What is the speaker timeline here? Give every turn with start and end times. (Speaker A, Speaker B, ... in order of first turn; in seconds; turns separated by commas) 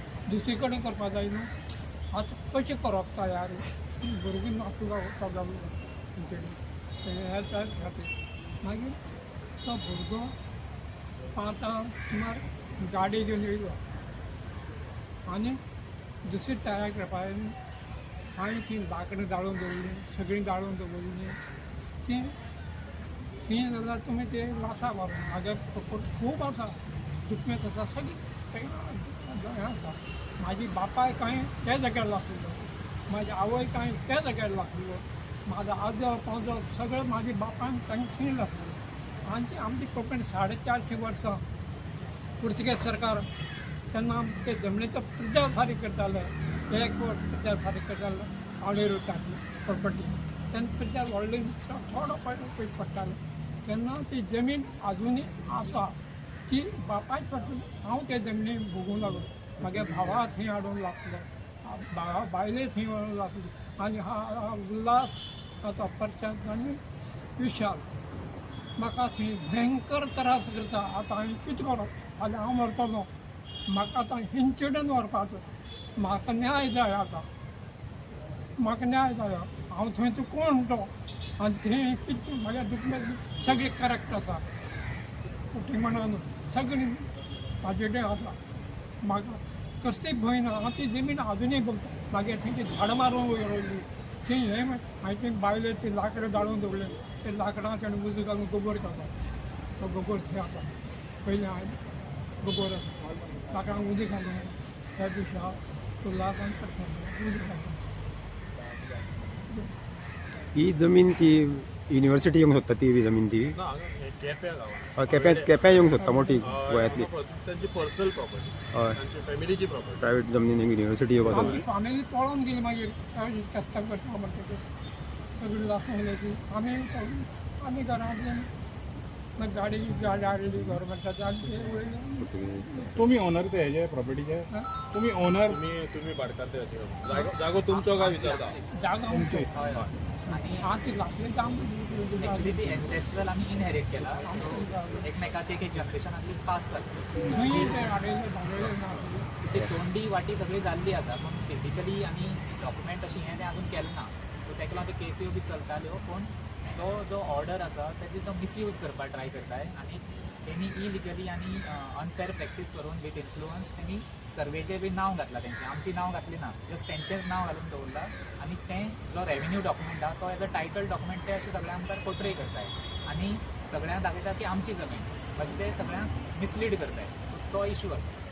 Speaker A: 0.2-1.5, Speaker A: 2.1-9.0, Speaker A: 9.6-10.3, Speaker A: 11.3-13.8, Speaker A: 15.3-15.6, Speaker A: 16.2-17.6, Speaker A: 18.3-21.4, Speaker A: 22.0-22.4, Speaker A: 23.4-41.4, Speaker A: 42.4-43.3, Speaker A: 43.9-56.0, Speaker A: 56.5-66.8, Speaker A: 67.4-67.9, Speaker A: 68.8-73.1, Speaker A: 73.7-75.5, Speaker A: 76.0-77.3, Speaker A: 78.6-84.5, Speaker A: 85.5-87.1, Speaker A: 87.6-88.4, Speaker A: 89.0-99.1, Speaker A: 99.8-101.9, Speaker A: 102.4-107.8, Speaker B: 110.5-113.6, Speaker C: 113.5-120.1, Speaker B: 115.0-117.1, Speaker A: 116.0-116.5, Speaker B: 118.7-119.0, Speaker B: 120.0-121.6, Speaker A: 121.3-124.6, Speaker C: 121.3-121.6, Speaker A: 125.4-128.5, Speaker A: 129.4-133.1, Speaker B: 132.2-133.0, Speaker D: 133.0-135.5, Speaker C: 135.4-138.6, Speaker E: 137.7-138.8, Speaker A: 138.7-139.5, Speaker E: 139.5-140.8, Speaker C: 139.7-139.9, Speaker A: 140.6-142.9, Speaker E: 142.2-147.4, Speaker A: 144.2-145.0, Speaker A: 147.2-149.3, Speaker E: 149.4-178.2